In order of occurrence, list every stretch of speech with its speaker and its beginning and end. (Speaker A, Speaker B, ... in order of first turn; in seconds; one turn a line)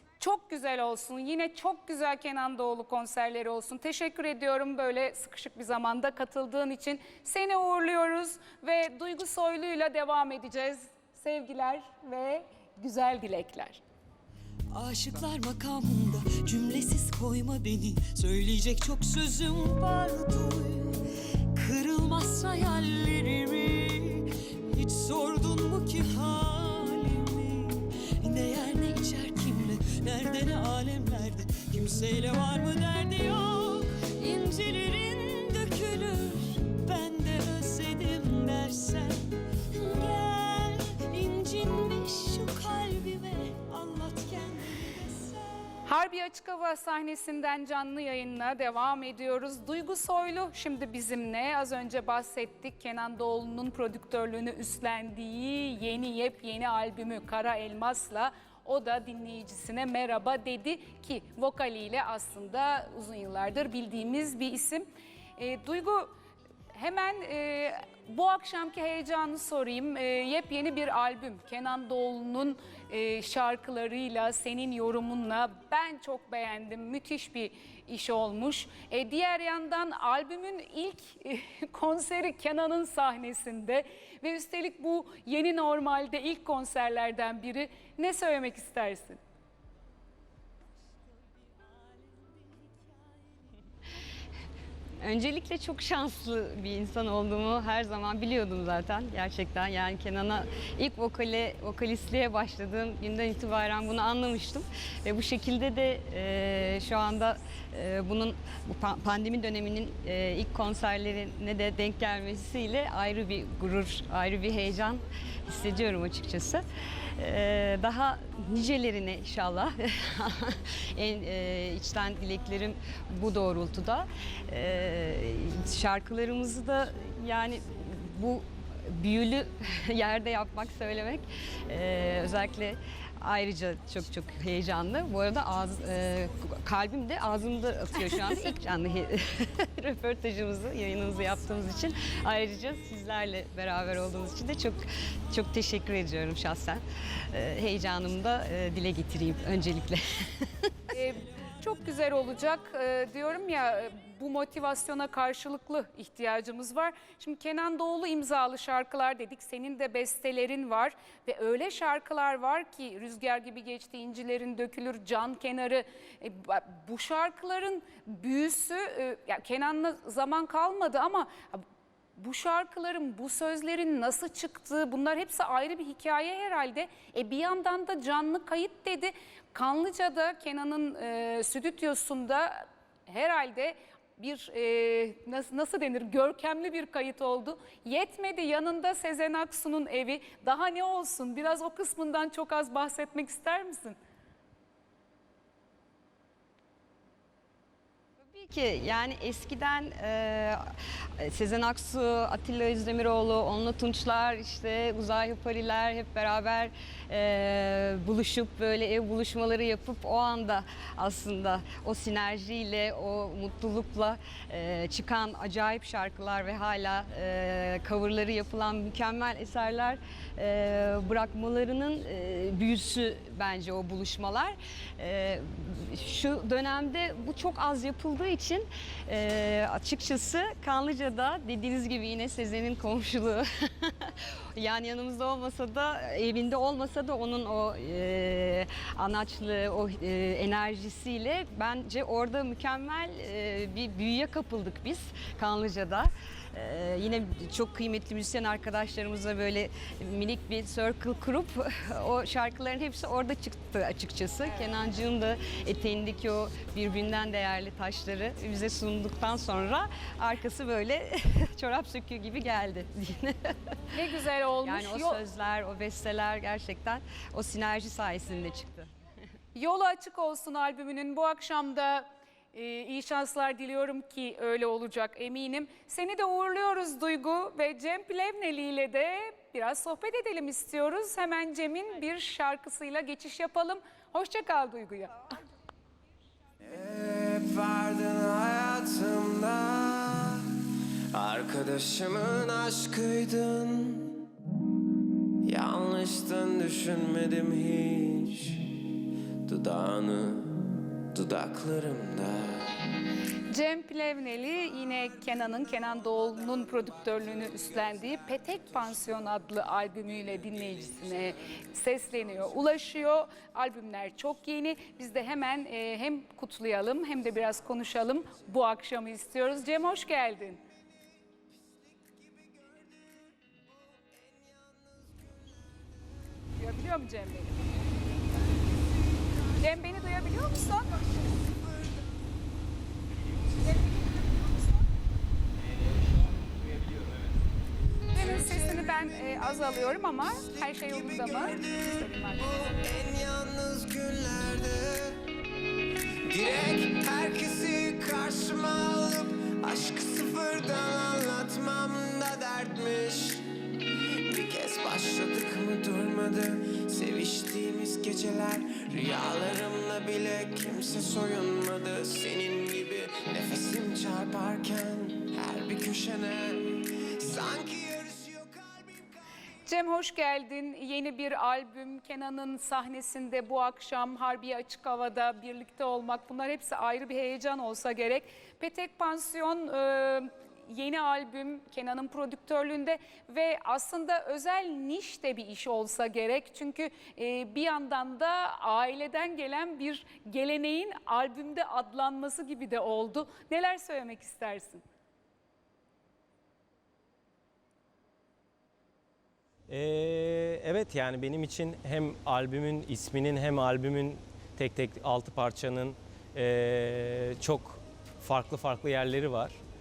Speaker A: 0.2-13.8
Speaker B: 14.7-21.0
Speaker B: 21.5-45.7
Speaker A: 45.9-64.9
Speaker A: 65.4-66.1
Speaker A: 66.7-89.2
Speaker B: 92.1-92.7
Speaker C: 95.0-116.6
Speaker C: 117.2-150.7
Speaker A: 150.9-171.6
Speaker A: 172.2-194.0
Speaker C: 198.2-263.8
Speaker A: 263.9-265.2
Speaker C: 264.6-268.9
Speaker A: 269.5-285.4
Speaker D: 286.6-290.5
Speaker D: 291.1-294.3
Speaker D: 295.4-298.8
Speaker D: 299.5-302.7
Speaker A: 303.5-320.6
Speaker D: 322.1-323.3
Speaker D: 323.9-325.7
Speaker A: 326.6-327.6
Speaker A: 329.6-331.0
Speaker A: 338.1-342.6
Speaker D: 338.1-345.2
Speaker D: 346.2-353.5
Speaker D: 354.2-369.2
Speaker A: 369.6-394.8
Speaker E: 399.7-409.6